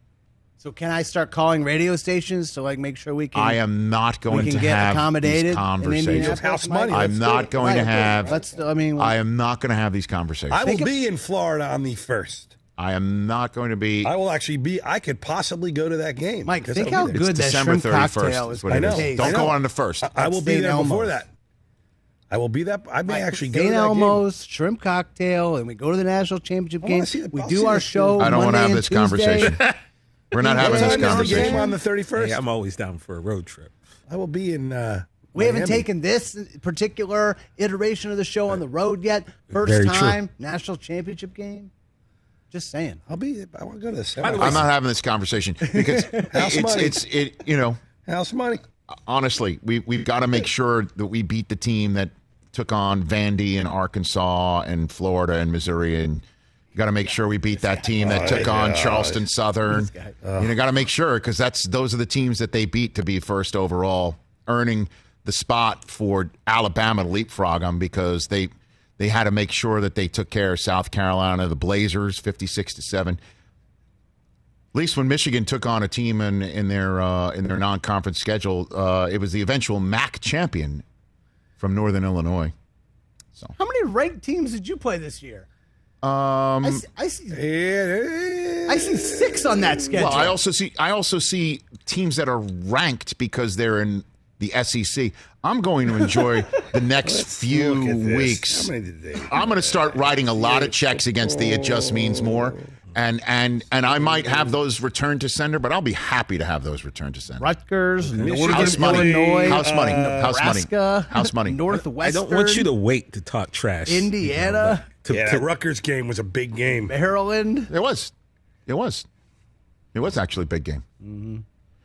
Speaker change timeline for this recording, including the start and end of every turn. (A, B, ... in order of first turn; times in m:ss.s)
0:00.6-0:03.6 A
0:03.3-0:08.4 B
0:04.3-0:09.1 A
0:06.1-0:08.5 C
0:09.0-0:10.6 B
0:10.5-0:12.5 C
0:10.6-0:10.9 A
0:12.8-0:14.1 B
0:14.0-0:17.2 C
0:16.4-0:19.5 A
0:17.0-0:20.1 B
0:18.7-0:21.3 C
0:20.2-0:21.2 A
0:22.3-0:24.2 C
0:23.1-0:29.6 A
0:26.8-0:28.4 C
0:28.2-0:29.7 B
0:30.3-0:31.6 B
0:30.4-0:31.8 A
0:30.5-0:32.4 C
0:32.2-0:33.8 D
0:34.1-0:35.8 C
0:35.3-0:41.7 A
0:39.6-0:40.2 D
0:42.5-0:43.0 A
0:43.1-0:44.7 C
0:44.2-0:44.6 D
0:44.4-0:47.8 B
0:46.0-0:46.3 A
0:46.3-0:47.0 C
0:48.0-0:48.6 C
0:49.0-0:56.2 B
0:56.7-1:13.2 B
0:57.6-0:58.3 A
0:58.0-0:59.2 C
0:59.7-1:00.1 A
1:00.2-1:00.5 C
1:14.7-1:20.8 B
1:21.6-1:22.5 B
1:23.6-1:25.5 A
1:26.0-1:26.8 B
1:26.6-1:27.4 A
1:27.3-1:29.9 C
1:28.7-1:30.3 A
1:29.9-1:38.7 B
1:37.0-1:39.8 C
1:39.3-1:47.5 B
1:40.4-1:42.6 C
1:44.1-1:44.5 C
1:47.4-1:52.7 A
1:48.1-1:50.3 C
1:48.5-1:51.6 B
1:51.7-1:55.4 D
1:53.9-1:54.8 A
1:55.1-1:56.9 C
1:56.9-1:57.7 A
1:57.7-1:58.1 B
1:58.7-1:59.1 B
1:59.9-2:00.8 B
2:01.0-2:01.4 A